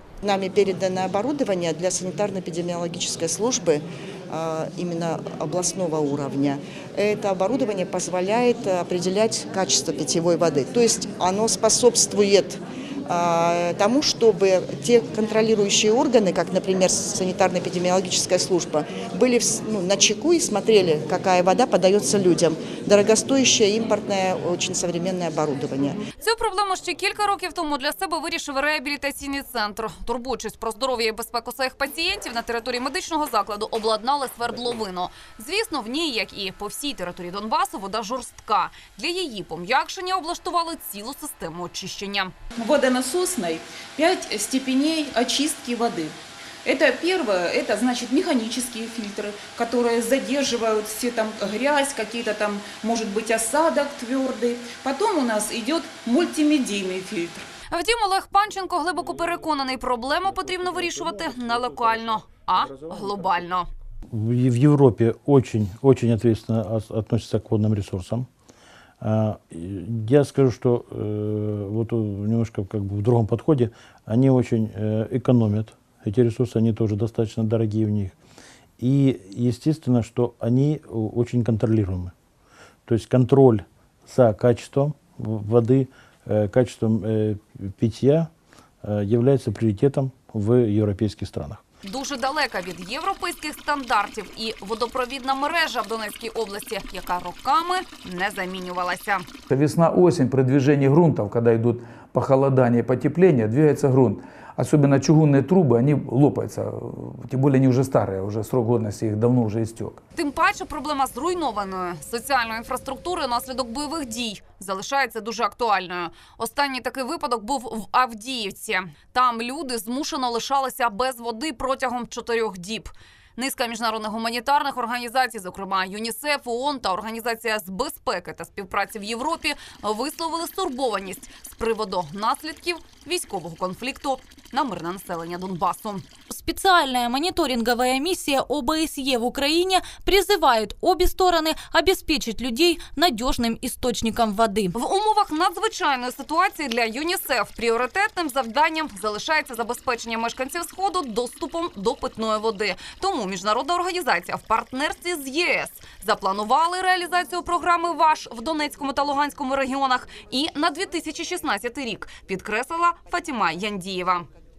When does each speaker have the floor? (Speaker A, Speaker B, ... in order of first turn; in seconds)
Speaker A: 0.2-26.0
Speaker B: 26.2-42.3, 57.7-63.7, 91.8-99.2, 110.1-136.1, 144.7-164.2
Speaker C: 42.5-57.5
Speaker D: 64.1-68.3, 69.0-78.1, 78.8-82.1, 82.9-88.3, 88.8-91.6
Speaker E: 99.5-110.0
Speaker F: 136.3-144.7